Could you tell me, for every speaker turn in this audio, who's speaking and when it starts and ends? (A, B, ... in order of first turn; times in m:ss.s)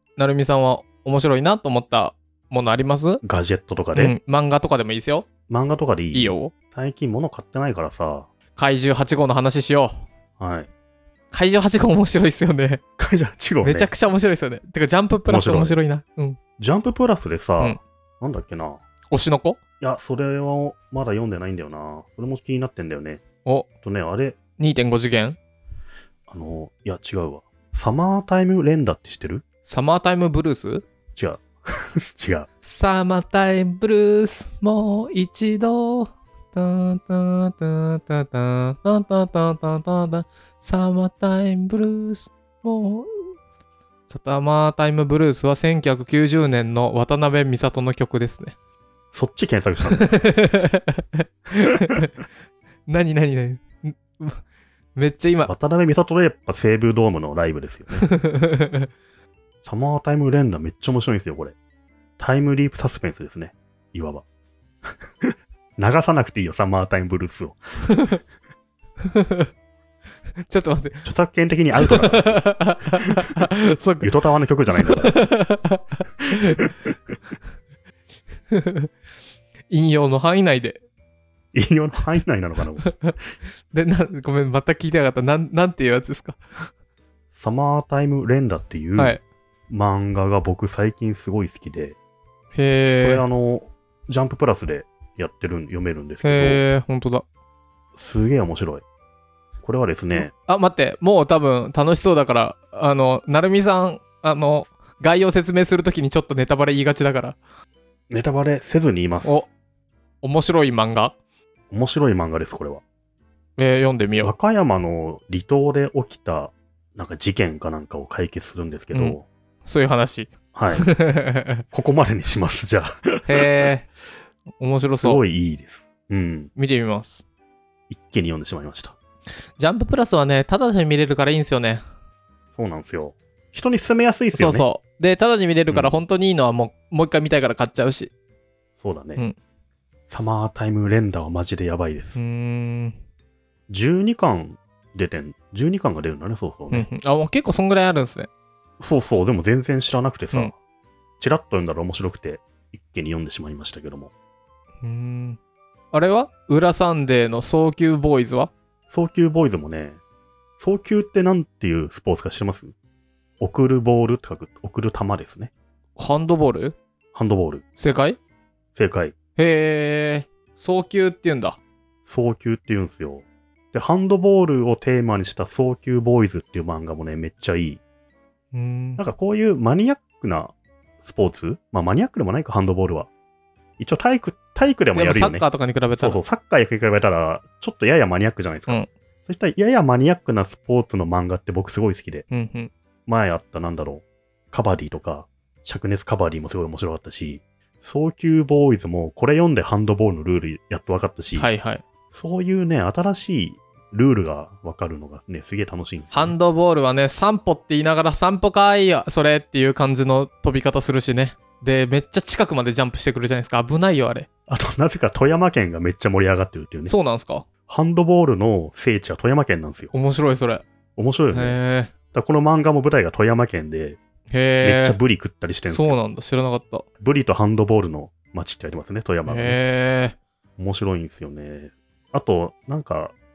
0:00.2-0:03.2 A
0:03.2-0:04.2 B
0:03.9-0:05.3 A
0:05.5-0:08.3 B
0:06.1-0:06.5 A
0:08.6-0:10.0 A
0:10.4-0:10.7 B
0:11.3-0:12.8 A
0:13.0-0:13.9 B
0:13.6-0:16.4 A
0:15.2-0:15.8 B
0:16.6-0:18.8 B
0:19.1-0:19.6 A
0:19.8-0:23.2 B
0:23.8-0:24.4 B
0:24.6-0:25.4 A
0:26.3-0:29.4 B
0:29.7-0:30.8 A
0:31.2-0:32.5 B
0:32.6-0:43.3 A
0:44.1-0:48.5 A
0:49.1-0:50.2 B
0:50.0-0:52.1 A
0:52.9-0:54.4 A
0:55.0-0:55.5 A
0:55.5-0:58.0 B
0:58.0-0:58.9 A
0:59.6-1:01.5 B
1:02.2-1:04.2 B
1:04.9-1:07.8 B
1:07.9-1:08.2 A
1:09.1-1:09.5 A
1:10.4-1:11.0 A
1:11.0-1:12.6 B
1:11.8-1:14.1 A
1:14.0-1:15.2 B
1:14.7-1:16.6 A
1:18.5-1:18.9 A
1:19.7-1:20.8 A
1:21.5-1:22.9 B
1:22.8-1:23.2 A
1:23.7-1:26.4 A
1:27.3-1:29.2 B
1:29.0-1:29.2 A
1:29.7-1:32.0 B
1:32.5-1:33.2 A
1:33.0-1:36.6 B
1:36.2-1:37.2 A
1:38.0-1:38.8 B
1:39.6-1:40.3 B
1:40.1-1:47.4 A
1:48.1-1:49.5 B
1:49.2-1:49.5 A
1:50.2-1:51.1 A
1:51.7-1:52.8 B
1:53.6-1:54.3 A
1:54.2-1:59.2 B
1:58.9-2:01.6 A
2:00.5-2:00.9 B
2:01.7-2:03.3 B
2:03.3-2:03.9 A
2:04.6-2:05.2 A
2:04.9-2:06.5 B
2:06.6-2:07.2 A
2:07.9-2:09.0 B
2:09.6-2:11.8 A
2:12.5-2:14.7 B
2:14.3-2:18.1 A
2:15.7-2:16.0 B
2:18.8-2:19.2 B
2:20.1-2:22.2 B
2:22.2-2:23.0 A
2:23.7-2:26.9 B
2:26.7-2:28.3 A
2:28.8-2:30.5 B
2:31.2-2:34.1 B
2:34.8-2:35.4 A
2:35.9-2:38.5 A
2:38.9-2:40.0 B
2:40.6-2:42.7 B
2:43.4-2:45.5 B
2:46.0-2:46.8 A
2:47.1-2:47.6 B
2:47.8-2:48.2 A
2:48.7-2:49.1 B
2:49.4-2:51.6 A
2:52.0-2:57.8 B
2:58.5-2:59.0 A
2:59.0-3:03.1 B
3:03.8-3:12.2 B
3:04.9-3:06.2 A
3:12.3-3:12.7 A
3:13.1-3:21.5 B
3:21.3-3:21.8 A
3:22.1-3:26.3 B
3:26.1-3:34.3 A
3:34.5-3:36.9 B
3:36.9-3:37.4 A
3:37.7-3:39.9 B
3:39.9-3:40.6 A
3:41.0-3:41.6 B
3:41.3-3:41.9 A
3:42.1-3:44.0 B
3:44.3-3:45.0 A
3:44.6-3:46.0 B
3:45.7-3:46.8 A
3:47.0-3:49.6 B
3:49.3-3:50.2 A
3:50.6-3:53.1 B